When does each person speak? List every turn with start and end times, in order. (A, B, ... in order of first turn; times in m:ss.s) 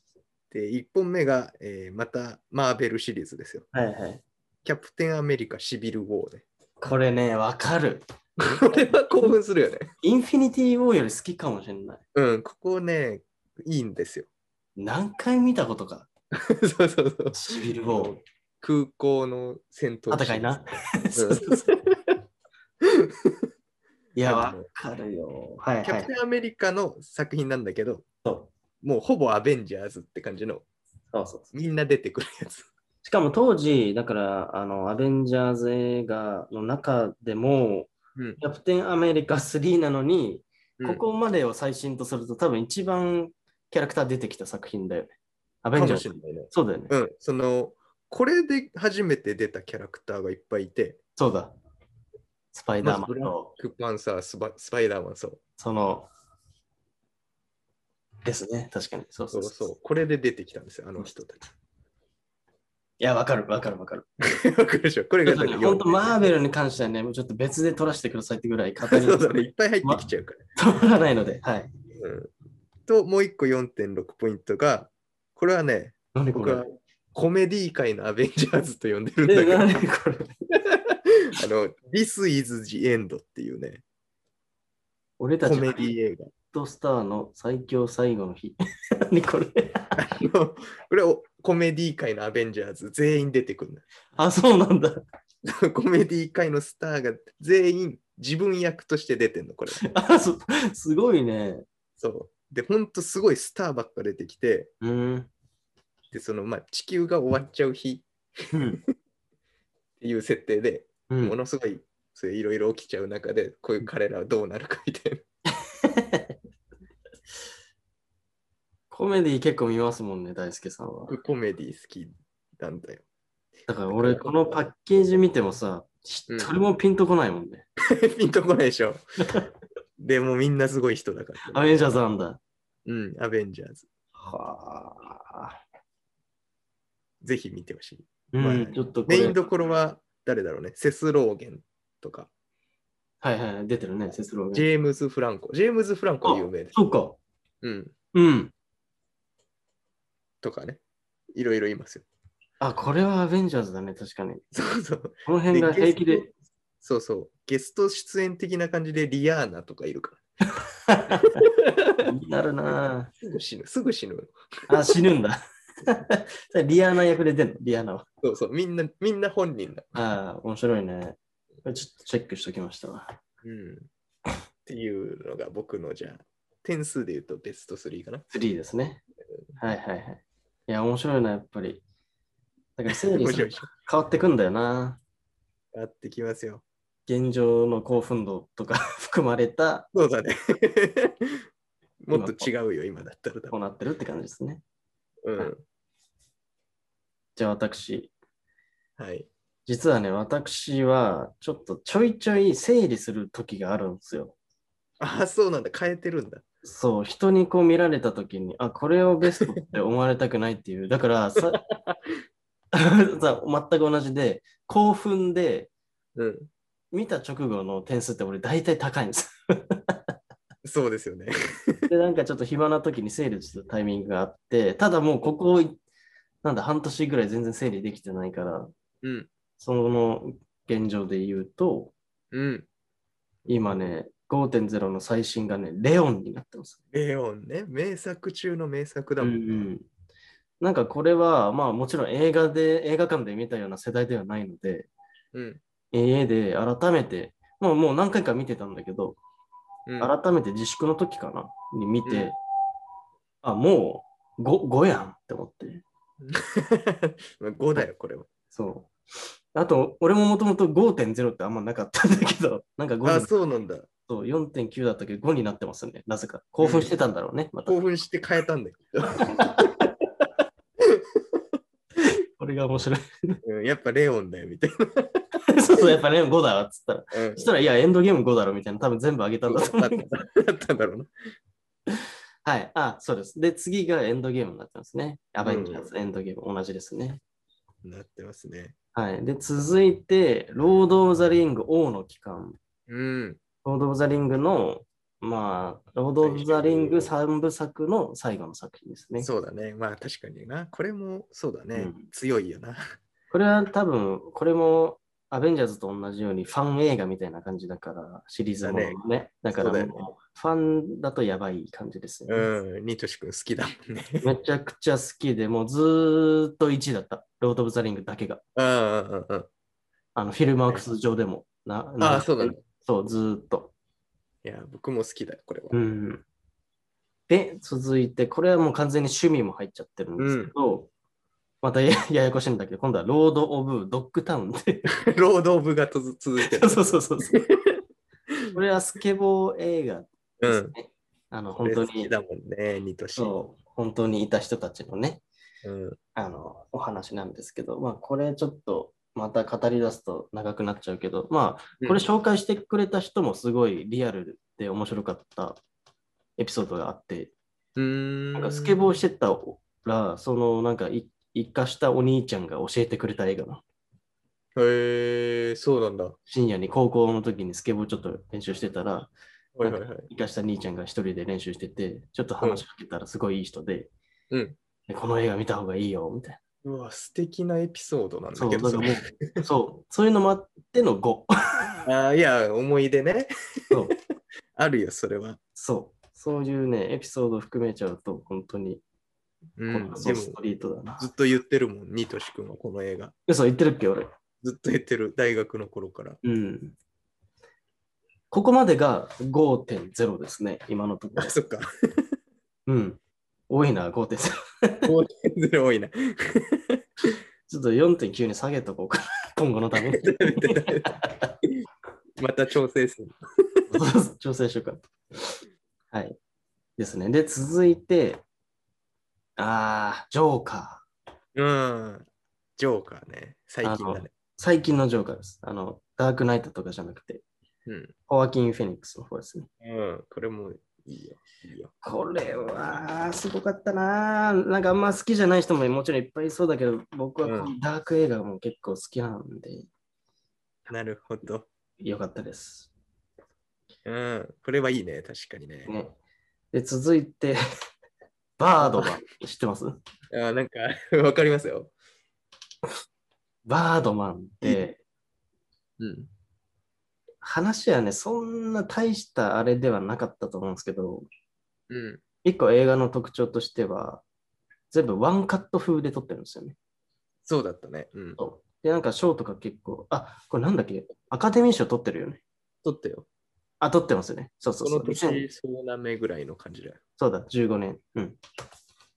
0:00.5-0:03.7 A
0:03.7-0:04.2 B
0:04.6-0:06.4 A
0:06.8-0:08.0 B
0:08.4-0:09.9 A
0:10.0-0:12.0 B
0:12.1-0:14.3 A
0:14.8-0:16.1 B
0:16.3-0:20.6 A
0:17.3-0:18.2 B
0:20.1-0:21.7 B
0:21.2-0:22.0 A
0:22.8-0:23.5 A
0:24.2-0:26.1 B
0:24.2-0:24.7 A
0:25.8-0:28.0 A
0:28.2-0:28.5 B
0:28.8-0:30.6 A
0:31.1-0:31.5 B
0:31.5-0:32.7 A
0:33.0-0:46.9 B
0:45.8-0:51.0 A
0:51.2-0:51.6 B
0:52.5-0:53.5 B
0:52.8-0:55.4 A
0:55.6-0:56.1 B
0:58.2-0:59.7 B
0:59.3-1:01.4 A
1:03.0-1:04.1 B
1:04.2-1:06.3 A
1:05.2-1:10.0 B
1:08.9-1:10.4 A
1:10.6-1:11.7 B
1:12.0-1:12.3 A
1:12.9-1:19.6 A
1:16.1-1:16.6 B
1:19.3-1:20.3 B
1:20.7-1:23.8 A
1:25.2-1:25.9 B
1:25.4-1:26.3 A
1:26.5-1:30.0 B
1:30.0-1:33.8 A
1:34.2-1:35.0 B
1:35.4-1:39.9 A
1:39.8-1:41.6 B
1:42.0-1:44.7 A
1:44.8-1:45.3 B
1:46.1-1:48.1 A
1:48.5-1:48.8 B
1:50.0-1:55.2 A
1:51.1-1:51.4 B
1:55.7-1:56.3 B
1:58.9-2:01.2 B
2:01.1-2:03.0 A
2:03.7-2:07.6 B
2:03.9-2:04.6 A
2:06.3-2:06.5 A
2:07.9-2:09.0 A
2:10.0-2:12.0 A
2:11.5-2:12.4 B
2:12.9-2:13.9 A
2:14.2-2:15.6 B
2:17.2-2:22.3 A
2:18.3-2:19.4 B
2:23.2-2:24.6 B
2:24.5-2:26.8 A
2:26.2-2:27.2 B
2:27.6-2:27.9 A
2:28.1-2:28.5 B
2:30.4-2:30.8 A
2:31.3-2:32.1 A
2:32.6-2:34.4 B
2:34.5-2:36.3 A
2:35.3-2:36.3 B
2:36.8-2:40.2 A
2:40.9-2:41.4 B
2:41.4-2:42.1 A
2:42.0-2:43.1 B
2:43.2-2:44.3 A
2:44.7-2:48.0 B
2:48.2-2:50.0 A
2:50.0-2:53.1 B
2:53.4-2:53.9 A
2:54.7-2:58.2 A
2:58.3-2:59.0 B
2:59.6-3:01.8 B
3:02.8-3:05.0 B
3:02.9-3:03.7 A
3:05.7-3:06.6 A
3:07.1-3:09.9 B
3:09.9-3:11.4 A
3:12.0-3:13.6 A
3:12.1-3:12.5 B
3:13.5-3:14.6 B
3:15.2-3:15.6 A
3:17.4-3:18.1 B
3:19.0-3:19.3 A
3:19.7-3:24.4 B
3:25.0-3:26.4 A
3:26.6-3:31.6 B
3:31.5-3:32.0 A
3:32.7-3:35.7 B
3:36.2-3:36.5 A
3:36.9-3:40.0 B
3:40.6-3:41.9 A
3:41.9-3:45.8 B
3:46.4-3:48.7 B
3:49.0-3:49.3 A
3:49.6-3:51.9 B
3:52.3-3:52.7 A
3:53.5-3:56.8 B
3:56.9-3:59.7 A
3:59.2-3:59.9 B
4:00.6-4:04.9 B
4:05.3-4:05.6 A
4:05.9-4:09.2 B
4:09.9-4:10.1 A
4:10.0-4:12.4 B
4:12.0-4:12.3 A
4:13.4-4:15.8 B
4:16.2-4:18.3 A
4:18.5-4:18.9 B
4:19.6-4:23.3 B
4:23.0-4:23.9 A
4:24.1-4:27.8 B
4:26.6-4:26.9 A
4:27.7-4:29.9 A
4:29.1-4:29.8 B
4:30.8-4:31.4 A
4:32.0-4:33.4 B
4:33.4-4:35.2 A
4:35.5-4:40.1 B
4:37.1-4:37.5 A
4:39.5-4:41.1 A
4:42.4-4:47.2 B
4:45.4-4:45.9 A
4:47.8-4:48.8 A
4:49.0-4:52.6 B
4:52.9-4:53.4 A
4:53.6-4:59.3 B
4:56.2-4:57.1 A
4:59.2-5:02.8 A
5:01.8-5:02.1 B
5:03.3-5:12.5 B
5:08.6-5:09.0 A
5:09.5-5:10.1 A
5:12.3-5:14.3 A
5:14.2-5:18.4 B
5:18.6-5:19.5 A
5:20.2-5:23.7 B
5:22.0-5:22.6 A
5:24.4-5:25.8 A
5:25.7-5:26.2 B
5:27.3-5:30.9 B
5:30.2-5:30.5 A
5:31.6-5:34.9 B
5:35.0-5:38.6 A
5:36.4-5:37.4 B
5:38.5-5:42.1 B
5:40.4-5:40.8 A
5:41.5-5:43.4 A
5:43.2-5:45.2 B
5:45.6-5:46.0 A
5:46.2-5:55.6 B
5:56.4-5:57.3 B
5:57.8-5:58.8 A
5:58.4-6:03.6 B
6:04.6-6:06.2 A
6:06.3-6:09.1 B
6:09.6-6:10.1 A
6:09.6-6:13.9 B
6:14.3-6:14.6 A
6:14.9-6:16.4 B
6:16.6-6:19.4 A
6:18.4-6:21.7 B
6:21.8-6:23.7 A
6:24.6-6:25.4 A
6:25.6-6:28.8 B
6:29.6-6:30.4 A
6:29.7-6:31.1 B
6:31.0-6:33.1 A
6:33.3-6:34.1 B
6:34.4-6:36.2 A
6:36.2-6:36.8 B
6:38.3-6:41.4 B
6:41.2-6:42.2 A
6:42.7-6:44.9 B
6:44.9-6:47.2 A
6:47.5-6:51.4 B
6:49.8-6:51.0 A
6:52.2-6:53.7 A
6:53.7-6:55.4 B
6:56.8-6:58.2 B
6:59.4-7:00.8 B
7:01.4-7:04.1 A
7:03.6-7:07.2 B
7:07.7-7:07.9 A
7:08.1-7:09.5 B
7:09.6-7:11.7 A
7:11.8-7:19.7 B
7:17.2-7:17.5 A
7:20.7-7:21.5 A
7:21.8-7:22.7 B
7:23.8-7:25.7 A
7:25.7-7:26.0 B
7:26.5-7:27.4 B
7:28.4-7:29.8 B
7:28.6-7:28.9 A
7:30.1-7:31.7 A
7:33.5-7:34.8 B
7:35.8-7:36.1 A
7:37.2-7:41.1 B
7:41.7-7:42.0 A
7:42.2-7:44.0 B
7:44.7-7:46.6 B
7:47.3-7:48.2 A
7:48.2-7:52.2 B
7:52.6-7:53.1 A
7:53.6-7:55.2 B
7:54.6-7:56.8 A
7:57.0-7:58.2 B